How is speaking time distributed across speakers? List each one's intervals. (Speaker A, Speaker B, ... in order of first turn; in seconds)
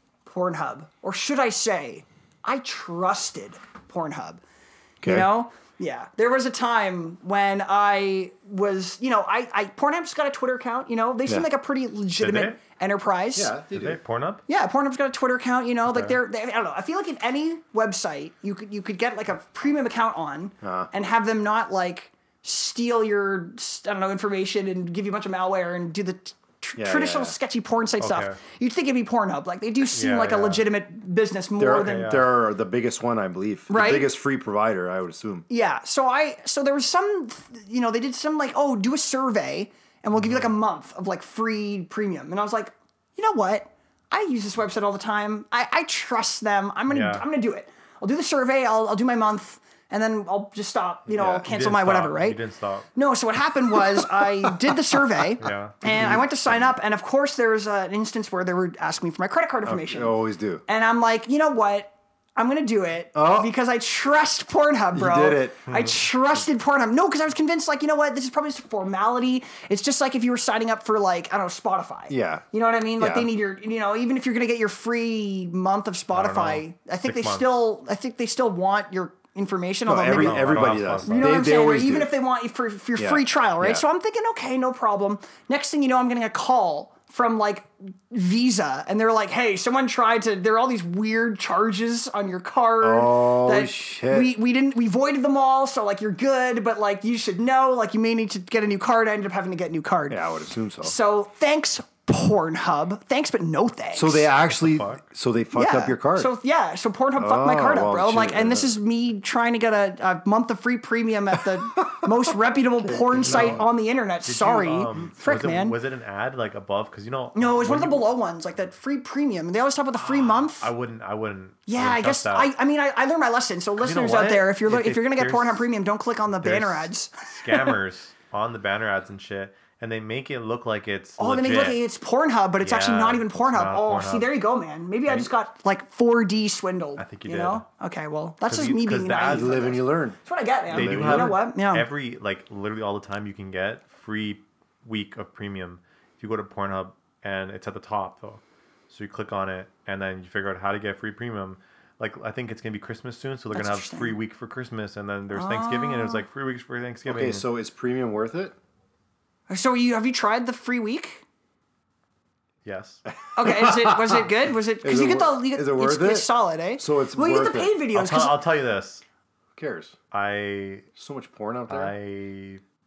Speaker A: 0.2-4.4, 5.0-13.5, 14.5-32.2, 33.7-34.1, 35.5-52.4, 52.9-100.2, 100.8-104.3, 105.5-115.8, 117.3-120.7, 121.7-127.7, 131.2-141.9, 153.5-154.2, 155.3-156.2, 159.5-161.2, 163.3-168.4
Speaker B: 5.0-5.3, 13.3-14.0, 20.6-20.9, 26.8-27.4, 31.6-35.4, 51.1-51.4, 53.8-55.3, 55.8-56.7, 59.6-60.6, 63.1-63.5, 64.9-65.5, 72.1-72.5, 73.0-73.3, 79.9-82.1, 83.0-83.8, 92.8-94.3, 100.1-100.9, 103.9-106.3, 107.2-108.7, 111.7-112.1, 112.8-113.7, 139.2-140.2, 140.7-141.4, 157.1-158.5, 163.4-164.3, 164.8-167.8, 169.6-169.9, 170.9-171.9
Speaker C: 12.2-12.6, 13.7-14.4, 15.9-16.1, 28.0-28.4, 29.9-30.6, 31.8-32.2, 40.1-40.5, 46.9-47.2, 51.4-52.9, 55.4-55.8, 65.7-66.0, 76.1-77.6, 80.0-81.4, 104.4-105.0, 113.2-113.7, 114.2-118.1, 120.0-122.5, 123.8-125.7, 126.4-131.8, 132.6-134.3, 137.0-137.6, 138.4-139.7, 140.7-157.4, 162.6-163.0, 167.9-169.0, 170.1-170.9, 171.7-172.6